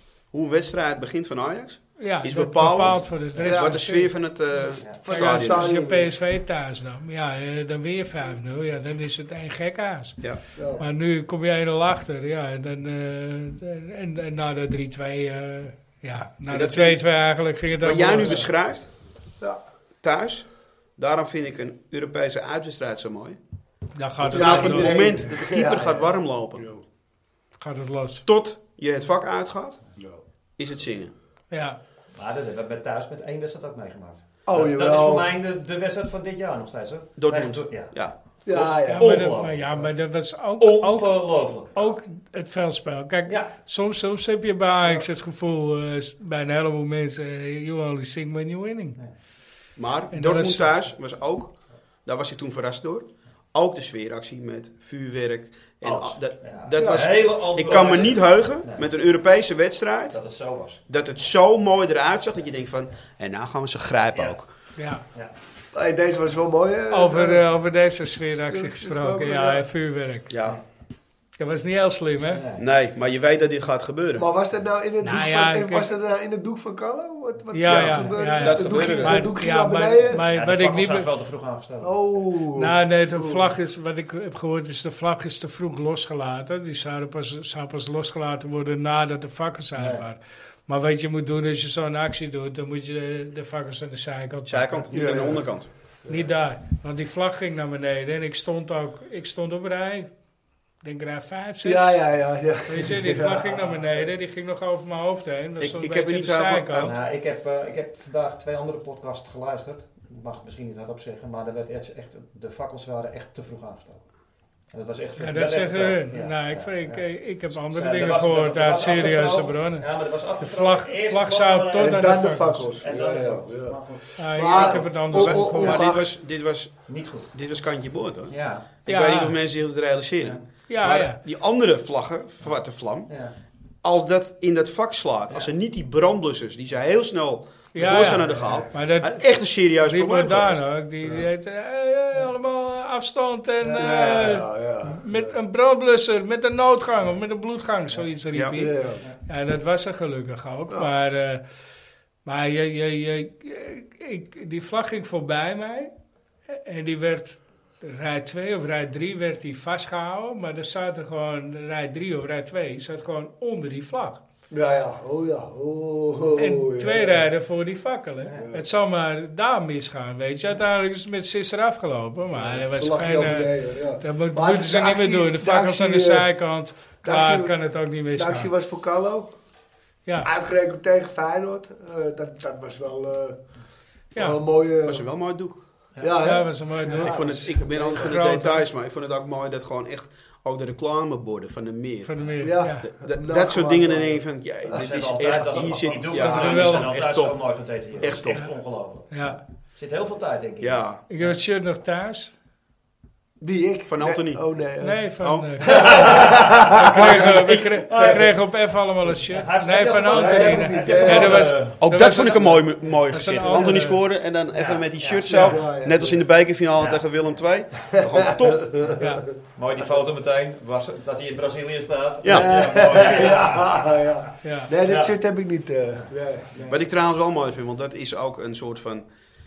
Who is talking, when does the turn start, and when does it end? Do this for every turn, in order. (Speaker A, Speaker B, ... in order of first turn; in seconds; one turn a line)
Speaker A: 0.3-5.8
Speaker B: 2.0-4.1
Speaker C: 3.4-4.0
Speaker C: 4.8-6.2
Speaker B: 5.1-18.5
Speaker C: 10.6-10.8
Speaker A: 16.5-17.0
Speaker A: 17.8-18.9
Speaker A: 20.0-23.4
Speaker B: 24.0-25.0
Speaker A: 24.2-26.7
Speaker C: 24.3-26.0
Speaker B: 27.6-28.2
Speaker A: 28.3-29.8
Speaker A: 30.6-31.1
Speaker B: 31.5-31.8
Speaker D: 32.1-37.9
Speaker C: 34.5-35.3
Speaker A: 37.2-38.9
Speaker C: 38.5-39.3
Speaker B: 38.9-49.0
Speaker D: 39.0-39.9
Speaker D: 40.6-41.7
Speaker D: 43.3-43.5
Speaker A: 49.8-60.2
Speaker B: 50.1-50.9
Speaker D: 55.8-58.9
Speaker C: 56.8-57.0
Speaker D: 60.1-60.8
Speaker A: 60.9-64.5
Speaker B: 64.8-65.0
Speaker C: 65.7-67.5
Speaker B: 66.9-70.3
Speaker C: 68.5-69.6
Speaker A: 70.3-70.6
Speaker B: 71.4-72.4
Speaker D: 72.2-72.7
Speaker A: 72.6-74.3
Speaker C: 74.2-80.2
Speaker B: 75.0-75.9
Speaker B: 77.5-81.1
Speaker A: 77.7-79.3
Speaker D: 80.1-82.0
Speaker C: 81.8-83.5
Speaker B: 82.6-95.3
Speaker D: 89.8-90.0
Speaker A: 94.5-95.7
Speaker C: 94.9-95.5
Speaker B: 96.1-100.1
Speaker B: 100.8-102.0
Speaker C: 101.6-103.8
Speaker B: 102.7-106.9
Speaker A: 105.6-107.0
Speaker D: 106.8-114.1
Speaker D: 114.7-117.1
Speaker B: 115.2-119.9
Speaker D: 117.7-122.2
Speaker B: 120.4-122.7
Speaker C: 121.8-126.1
Speaker D: 122.8-124.9
Speaker B: 124.2-125.9
Speaker A: 125.1-133.1
Speaker D: 126.9-127.3
Speaker D: 128.3-128.7
Speaker B: 128.9-129.4
Speaker B: 130.7-131.2
Speaker D: 133.1-133.3
Speaker A: 133.8-140.7
Speaker B: 137.7-139.3
Speaker D: 138.3-138.7
Speaker B: 139.8-151.4
Speaker C: 143.6-145.3
Speaker A: 143.8-144.1
Speaker A: 148.3-148.6
Speaker C: 148.6-149.1
Speaker B: 152.2-155.9
Speaker B: 156.5-164.2
Speaker C: 164.5-167.2
Speaker B: 166.4-178.5
Speaker C: 168.4-168.6
Speaker C: 172.3-176.3
Speaker C: 177.0-177.6
Speaker C: 178.2-179.3
Speaker C: 180.2-183.5
Speaker B: 184.1-184.4
Speaker C: 184.1-185.1
Speaker A: 184.8-185.6
Speaker C: 186.0-188.1
Speaker B: 186.2-188.7
Speaker A: 186.9-197.4
Speaker B: 192.0-192.9
Speaker C: 192.4-194.8
Speaker D: 194.8-199.2
Speaker C: 195.6-195.9
Speaker B: 196.1-197.0
Speaker A: 197.9-198.4
Speaker B: 199.1-199.4
Speaker D: 199.8-201.4
Speaker A: 200.6-201.0
Speaker B: 201.1-202.3
Speaker C: 203.4-205.0
Speaker A: 203.9-204.4
Speaker B: 204.8-214.0
Speaker A: 205.2-206.3
Speaker D: 205.7-206.7
Speaker C: 205.7-207.2
Speaker A: 206.9-207.8
Speaker D: 207.9-208.2
Speaker C: 207.9-208.3
Speaker D: 209.2-211.8
Speaker C: 210.0-211.8
Speaker A: 211.8-219.0
Speaker D: 214.5-215.7
Speaker C: 215.2-216.2
Speaker D: 216.7-217.4
Speaker C: 218.0-219.2
Speaker B: 219.0-219.2
Speaker D: 219.6-224.0
Speaker A: 222.2-223.2
Speaker C: 222.3-226.5
Speaker B: 224.4-224.7
Speaker D: 224.8-225.2
Speaker D: 225.9-226.7
Speaker A: 226.6-229.1